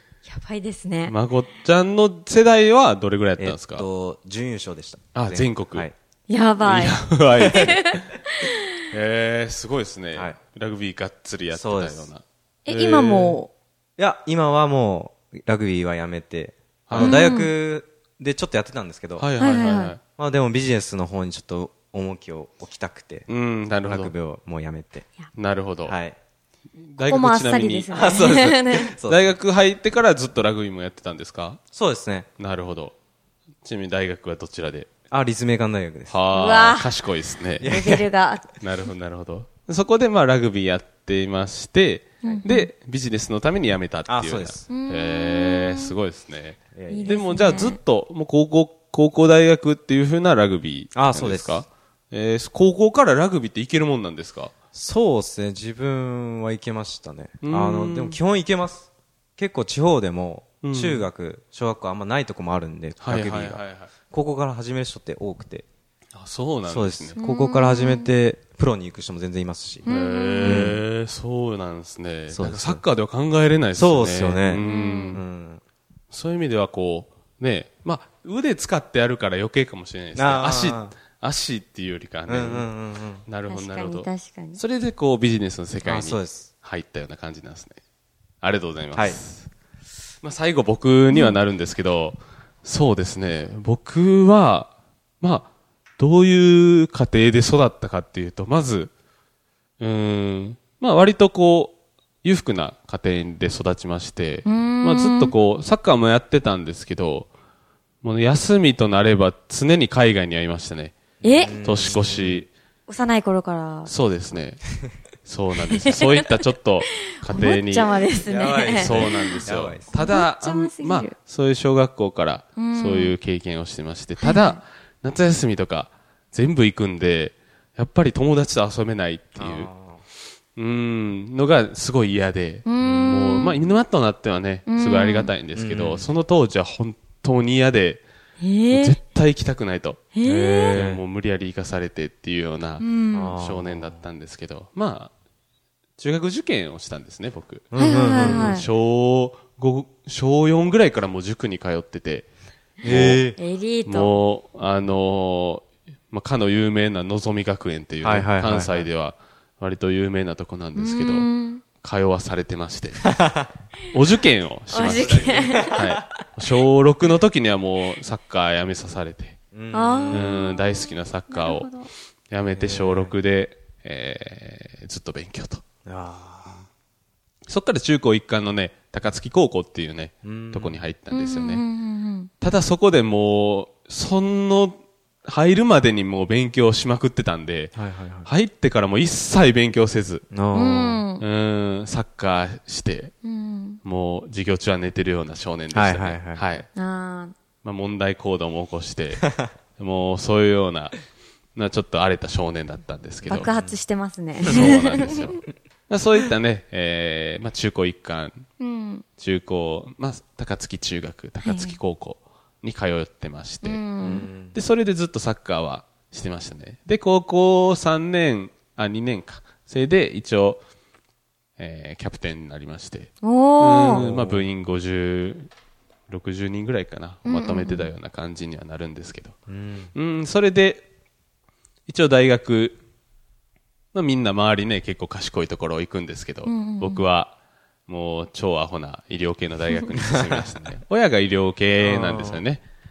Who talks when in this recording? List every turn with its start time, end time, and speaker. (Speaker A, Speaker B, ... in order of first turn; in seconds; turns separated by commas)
Speaker A: 0.3-1.1, Speaker B: 1.1-3.9, Speaker C: 3.4-5.9, Speaker B: 5.1-5.9, Speaker A: 6.3-8.5, Speaker B: 6.6-8.1, Speaker B: 8.9-13.4, Speaker C: 11.5-12.1, Speaker A: 12.7-13.5, Speaker C: 14.0-19.3, Speaker B: 16.9-17.3, Speaker A: 17.0-17.5, Speaker B: 19.2-20.0, Speaker A: 19.4-19.9, Speaker C: 20.2-23.3, Speaker B: 23.3-24.1, Speaker C: 23.8-25.1, Speaker B: 25.3-26.0, Speaker C: 25.8-26.1, Speaker B: 26.9-27.9, Speaker A: 27.1-28.9, Speaker C: 27.9-29.2, Speaker B: 29.1-31.6, Speaker C: 31.7-32.3, Speaker B: 32.4-32.9, Speaker B: 33.6-34.9, Speaker C: 35.1-36.1, Speaker B: 36.1-37.7, Speaker A: 36.3-36.9, Speaker C: 37.6-38.1, Speaker A: 37.6-38.5, Speaker B: 38.6-54.5, Speaker A: 42.2-42.7, Speaker C: 44.1-44.7, Speaker A: 44.7-45.9, Speaker C: 46.7-47.2, Speaker A: 46.9-47.8, Speaker C: 50.9-51.6, Speaker C: 54.7-65.7, Speaker B: 57.4-58.2, Speaker B: 60.6-61.1, Speaker B: 63.0-63.9, Speaker B: 66.1-67.2, Speaker C: 66.7-69.9, Speaker A: 67.2-68.1, Speaker B: 69.8-75.2, Speaker A: 69.9-70.7, Speaker C: 70.4-70.8, Speaker C: 72.3-72.8, Speaker C: 73.7-75.6, Speaker A: 74.6-75.2, Speaker B: 76.1-82.7, Speaker C: 80.1-81.0, Speaker C: 82.3-83.2, Speaker B: 83.2-87.8, Speaker A: 83.5-84.6, Speaker C: 85.8-86.5, Speaker B: 88.4-89.5, Speaker B: 90.2-94.7, Speaker A: 91.1-91.4, Speaker B: 95.2-98.9, Speaker B: 99.8-107.3, Speaker A: 104.4-105.3, Speaker B: 108.0-112.5, Speaker A: 111.2-111.9, Speaker C: 111.2-112.5, Speaker A: 112.9-113.9, Speaker B: 113.8-114.6, Speaker B: 115.2-117.9, Speaker A: 115.7-116.3, Speaker A: 117.3-119.4, Speaker C: 118.2-119.9, Speaker B: 118.7-129.7, Speaker A: 119.9-121.1, Speaker A: 122.5-123.2, Speaker A: 124.2-124.6, Speaker C: 129.4-130.0, Speaker B: 130.6-138.0, Speaker A: 132.7-133.6, Speaker A: 134.7-135.3, Speaker C: 135.5-136.1, Speaker A: 138.4-139.0, Speaker B: 138.7-140.1, Speaker A: 140.1-140.8, Speaker C: 140.2-141.0, Speaker B: 140.7-142.8, Speaker A: 142.8-143.3, Speaker C: 143.1-144.0, Speaker B: 143.4-145.1, Speaker B: 146.0-152.3, Speaker C: 147.7-148.5, Speaker A: 147.7-148.7, Speaker B: 152.8-153.2, Speaker C: 152.8-153.4, Speaker A: 153.3-154.2, Speaker B: 153.8-161.3, Speaker C: 158.0-158.9, Speaker A: 160.7-161.6, Speaker B: 161.8-163.1, Speaker C: 163.1-163.4, Speaker B: 163.9-169.4, Speaker A: 164.7-165.8, Speaker C: 165.4-165.8, Speaker C: 169.5-170.4, Speaker A: 169.7-171.9, Speaker B: 170.1-171.7, Speaker B: 172.3-175.6, Speaker C: 172.5-173.1, Speaker C: 175.8-176.7, Speaker B: 177.5-181.6, Speaker C: 180.2-180.8, Speaker A: 181.1-182.3, Speaker B: 182.4-190.2, Speaker C: 187.8-188.3, Speaker C: 190.3-191.0, Speaker A: 190.5-191.2, Speaker B: 191.2-193.1, Speaker A: 193.2-193.8, Speaker B: 193.8-196.7, Speaker C: 195.7-196.4, Speaker A: 196.7-197.3, Speaker B: 197.6-200.9, Speaker B: 201.5-203.5, Speaker C: 203.2-203.8, Speaker A: 203.3-205.2, Speaker B: 204.4-208.4, Speaker C: 204.5-205.1, Speaker A: 208.6-209.0, Speaker B: 209.2-213.8, Speaker A: 211.4-211.8, Speaker A: 213.6-214.3, Speaker C: 214.0-214.6, Speaker B: 214.5-220.6, Speaker B: 221.6-225.5, Speaker A: 223.2-224.1, Speaker C: 223.9-224.5, Speaker B: 226.1-229.3, Speaker A: 227.2-227.9, Speaker C: 229.5-229.9, Speaker B: 229.9-230.8, Speaker B: 231.9-232.8, Speaker B: 233.9-237.3, Speaker A: 236.4-237.0, Speaker B: 237.9-242.6, Speaker C: 240.2-240.4, Speaker C: 241.8-242.4